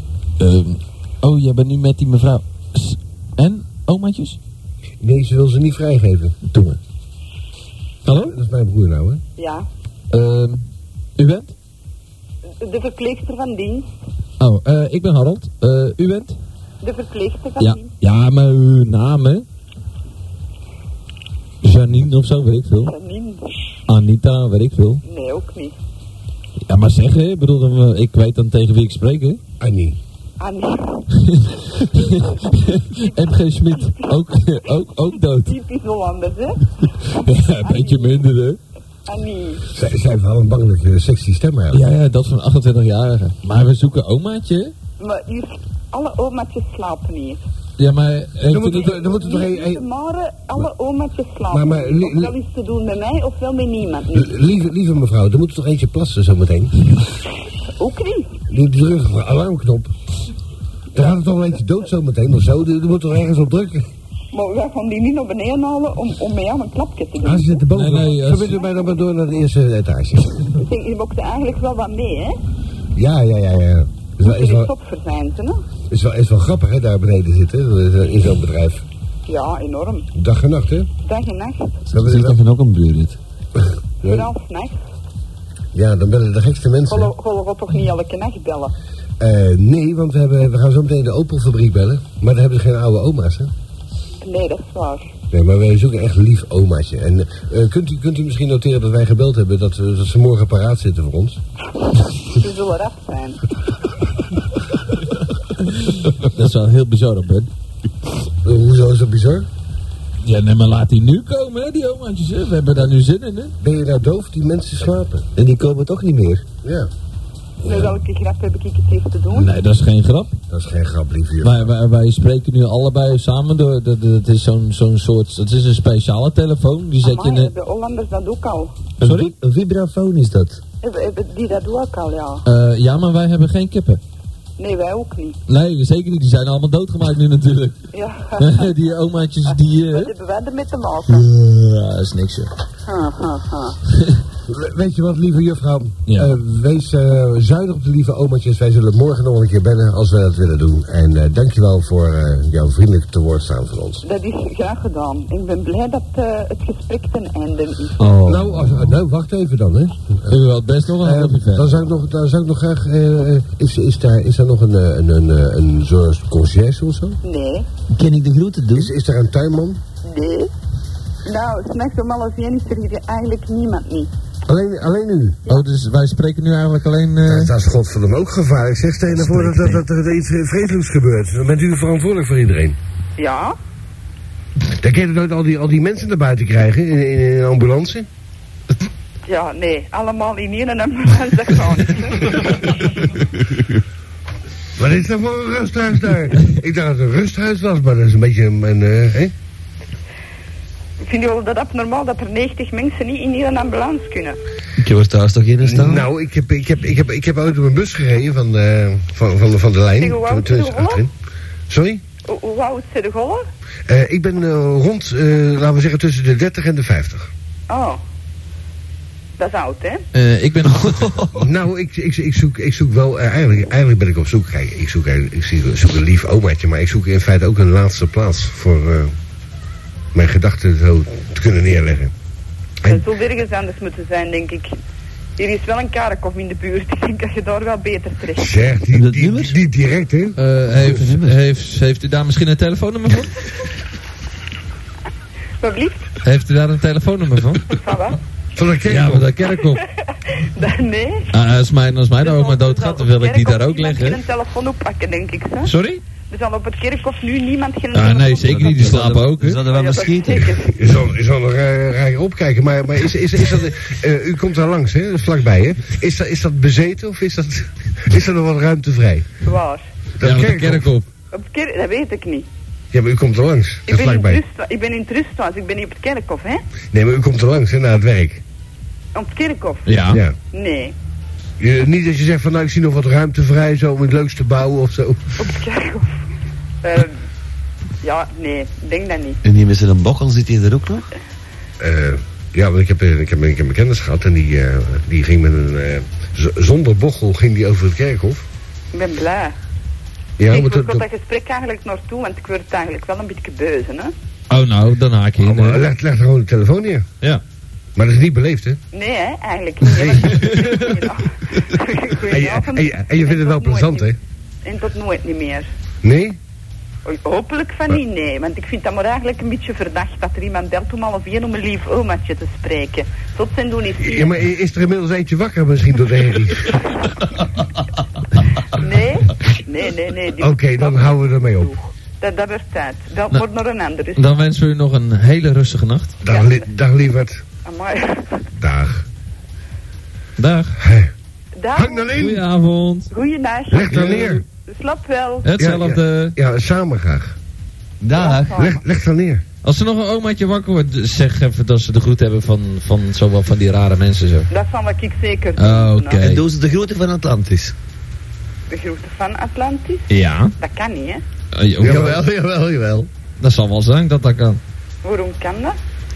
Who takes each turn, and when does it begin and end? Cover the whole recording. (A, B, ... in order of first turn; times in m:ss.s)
0:00.4-0:04.4 A
0:05.0-0:06.4 B
0:06.5-0:06.8 A
0:08.0-0:08.4 A
0:08.1-0:09.2 B
0:09.4-0:09.7 C
0:10.1-0:10.6 A
0:11.2-0:11.5 A
0:12.6-0:13.9 C
0:14.4-0:16.4 A
0:16.8-0:17.9 C
0:17.6-0:19.4 A
0:21.6-0:22.9 A
0:22.8-0:23.6 C
0:23.9-0:25.0 A
0:25.0-0:25.8 C
0:26.7-0:29.4 A
0:29.6-0:30.0 B
0:30.4-0:31.1 C
0:31.2-0:35.6 A
0:32.9-0:34.6 C
0:35.3-0:38.3 C
0:37.2-0:38.6 A
0:39.0-0:39.6 C
0:39.7-0:41.8 B
0:41.7-0:44.7 A
0:45.0-0:47.4 C
0:47.8-0:48.9 A
0:48.4-0:49.8 B
0:48.7-0:54.3 C
0:51.5-0:52.3 B
0:54.1-0:56.8 B
0:57.8-0:58.4 C
0:58.5-0:59.9 B
1:00.9-1:03.9 B
1:04.3-1:07.6 C
1:07.2-1:10.5 B
1:07.7-1:08.6 A
1:10.6-1:12.4 C
1:12.9-1:14.7 B
1:14.2-1:15.6 C
1:15.9-1:18.8 B
1:19.2-1:20.1 C
1:20.1-1:20.9 B
1:21.0-1:21.8 C
1:21.9-1:23.2 D
1:21.9-1:22.4 B
1:23.6-1:24.3 B
1:24.0-1:24.8 C
1:25.7-1:27.1 B
1:26.8-1:28.7 C
1:29.2-1:33.5 B
1:34.2-1:35.1 C
1:35.3-1:41.4 B
1:42.2-1:43.4 C
1:45.7-1:47.5 A
1:48.4-1:49.5 B
1:50.2-1:53.5 A
1:53.6-1:55.3 B
1:55.4-1:56.4 D
1:56.6-1:56.9 B
1:57.6-1:59.6 C
1:57.6-1:58.0 B
1:59.3-2:00.4 A
2:00.5-2:01.6 B
2:01.4-2:07.5 A
2:07.0-2:08.8 C
2:09.0-2:09.3 A
2:09.0-2:10.6 D
2:10.8-2:12.4 C
2:12.4-2:14.0 A
2:14.6-2:15.4 C
2:15.5-2:17.8 A
2:17.9-2:18.7 C
2:18.4-2:20.1 A
2:19.4-2:21.3 C
2:21.1-2:22.5 A
2:22.8-2:23.8 C
2:24.4-2:34.0 B
2:26.1-2:26.4 A
2:34.0-2:38.0 C
2:38.0-2:38.7 D
2:38.2-2:40.4 B
2:40.3-2:41.7 A
2:41.0-2:47.2 B
2:47.2-2:47.7 C
2:47.9-2:48.9 D
2:48.7-2:49.8 B
2:50.0-2:50.5 C
2:51.2-2:54.1 C
2:54.5-2:55.5 B
2:55.5-2:57.5 A
2:57.2-3:02.8 B
2:59.2-2:59.8 A
3:03.2-3:03.6 C
3:04.8-3:08.1 B
3:09.3-3:12.8 C
3:14.8-3:19.3 B
3:21.0-3:24.4 C
3:24.8-3:26.1 D
3:25.6-3:31.1 B
3:30.0-3:31.0 C
3:31.7-3:32.0 B
3:32.2-3:33.4 C
3:33.8-3:37.3 B
3:37.7-3:38.0 C
3:39.4-3:40.0 C
3:40.1-3:41.4 A
3:41.3-3:49.1 B
3:50.1-3:52.1 B
3:52.8-3:54.7 C
3:55.4-3:58.6 C
3:58.4-4:00.4 B
3:58.9-3:59.6 D
4:00.4-4:03.5 A
4:00.8-4:01.4 D
4:05.6-4:06.1 C
4:06.2-4:07.8 A
4:07.7-4:08.2 C
4:08.5-4:09.3 B
4:08.8-4:09.8 A
4:09.6-4:11.3 C
4:11.3-4:14.2 A
4:12.2-4:15.7 C
4:15.6-4:16.0 A
4:16.3-4:19.0 C
4:17.9-4:19.6 A
4:18.5-4:20.5 D
4:19.7-4:20.7 C
4:20.6-4:29.3 B
4:29.4-4:29.8 C
4:30.2-4:30.9 B
4:30.2-4:31.0 A
4:31.3-4:32.5 C
4:32.9-4:34.4 B
4:33.9-4:36.6 C
4:36.9-4:38.4 B
4:39.1-4:40.0 C
4:39.8-4:40.2 A
4:40.1-4:40.3 B
4:40.5-4:40.9 C
4:41.6-4:45.4 B
4:45.4-4:46.1 C
4:46.8-4:47.2 C
4:48.0-4:49.4 C
4:49.4-4:51.1 D
4:51.8-4:58.4 B
4:58.9-4:59.6 C
5:00.4-5:01.0 B
5:00.5-5:04.1 C
5:04.5-5:05.9 A
5:05.4-5:07.1 B
5:08.0-5:08.8 B
5:08.9-5:14.1 C
5:10.0-5:10.5 B
5:12.2-5:14.2 B
5:14.6-5:15.7 C
5:16.0-5:16.4 B
5:17.0-5:24.4 C
5:24.0-5:26.9 B
5:28.7-5:34.4 C
5:30.4-5:31.7 B
5:34.2-5:36.2 A
5:36.2-5:37.4 B
5:36.3-5:36.6 C
5:37.6-5:38.5 C
5:38.6-5:39.1 B
5:40.4-5:40.8 A
5:40.8-5:41.1 B
5:41.6-5:42.1 C
5:41.7-5:42.4 B
5:42.1-5:43.1 A
5:43.1-5:45.5 C
5:43.7-5:44.4 B
5:43.9-5:44.4 A
5:45.4-5:46.4 A
5:45.6-5:47.4 B
5:48.0-5:48.7 D
5:48.1-5:48.8 C
5:48.5-5:49.4 B
5:49.6-5:54.5 A
5:54.5-5:56.2 C
5:55.6-5:56.4 A
5:56.2-5:57.7 D
5:58.7-6:01.2 C
6:00.1-6:00.5 A
6:01.5-6:02.2 A
6:01.8-6:02.2 B
6:01.8-6:03.1 D
6:03.4-6:04.6 A
6:05.0-6:05.8 C